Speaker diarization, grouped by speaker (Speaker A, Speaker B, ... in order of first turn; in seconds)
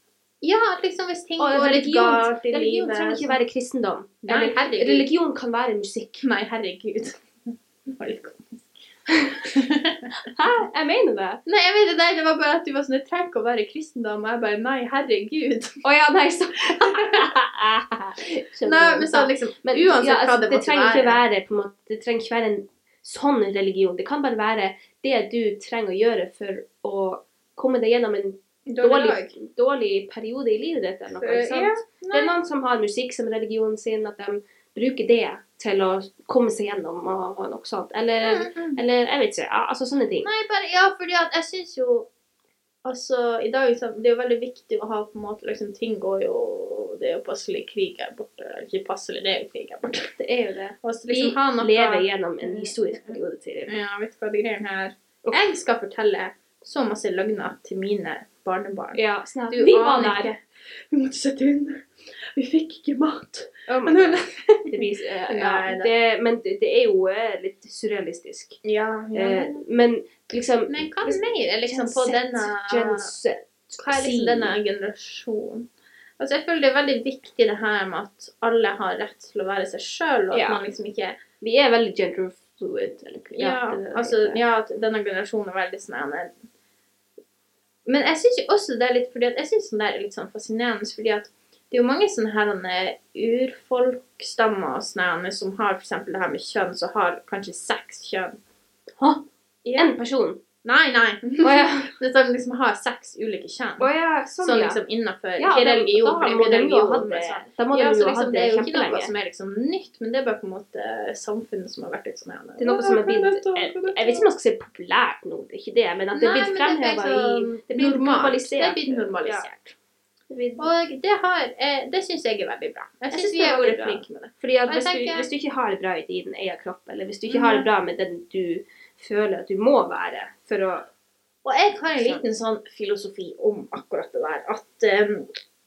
Speaker A: 0.4-3.4, 4.2-5.1, 6.2-7.2, 7.9-8.7, 9.4-10.1, 11.5-15.8, 16.7-17.3, 18.6-21.2, 28.7-29.3, 31.2-32.3, 38.2-38.8, 40.2-42.1, 42.9-50.1, 50.8-59.0, 59.5-65.9, 68.6-69.6, 70.7-73.1, 73.8-75.7, 76.2-81.2, 83.4-86.3, 87.9-98.4, 99.7-99.9, 100.6-103.9, 104.4-114.3, 116.1-119.8, 120.6-125.3, 127.3-127.7, 131.4-135.3
Speaker B: 1.4-6.3, 9.1-9.4, 10.2-11.4, 15.8-40.3, 50.2-53.7, 59.0-60.3, 63.7-68.6, 69.1-74.6, 80.3-80.6, 81.4-84.4, 99.0-99.2, 99.8-100.4, 101.4-101.9, 103.8-104.8, 105.4-109.1, 112.6-119.5, 120.3-120.7, 123.1-130.9